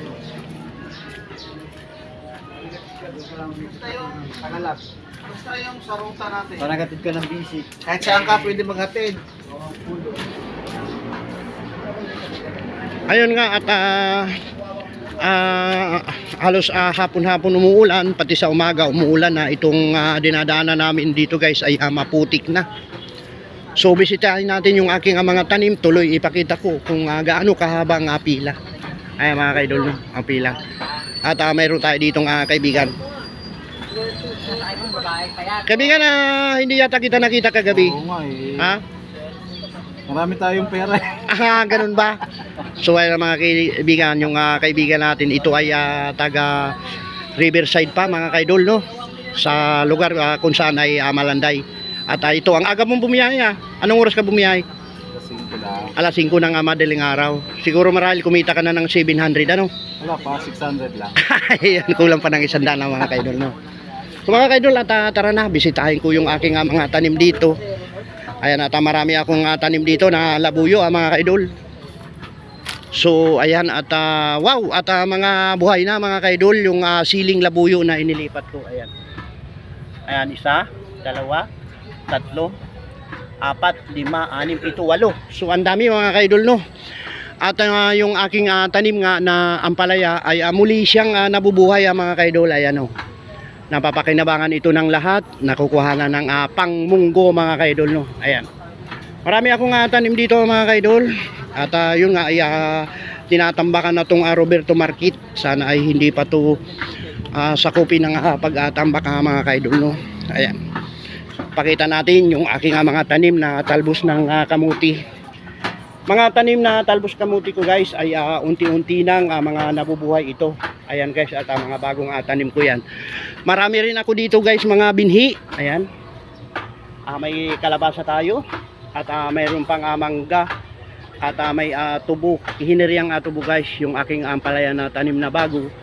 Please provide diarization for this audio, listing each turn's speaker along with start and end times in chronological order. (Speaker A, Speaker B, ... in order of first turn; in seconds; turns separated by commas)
Speaker A: 2.9-10.2, Speaker B: 13.1-14.4, Speaker B: 15.2-22.7, Speaker B: 23.8-28.6, Speaker B: 29.2-30.6, Speaker B: 31.2-33.0, Speaker B: 35.6-38.0, Speaker A: 37.7-38.8, Speaker A: 40.1-41.3, Speaker B: 41.3-42.2, Speaker B: 42.8-46.8, Speaker B: 47.4-48.8, Speaker B: 49.4-54.6, Speaker A: 55.1-55.9, Speaker B: 56.0-59.7, Speaker A: 60.0-61.2, Speaker B: 61.2-63.5, Speaker B: 64.3-67.6, Speaker B: 68.4-71.5, Speaker B: 72.9-78.9, Speaker B: 80.1-81.5, Speaker B: 82.1-82.5, Speaker B: 83.4-86.6, Speaker B: 87.4-92.9, Speaker B: 93.7-98.5, Speaker B: 99.3-101.0, Speaker B: 101.6-106.6, Speaker B: 107.3-110.6, Speaker B: 111.6-115.0, Speaker B: 116.1-122.8, Speaker B: 123.5-125.9, Speaker B: 127.1-128.4, Speaker B: 129.0-130.5, Speaker B: 131.2-135.7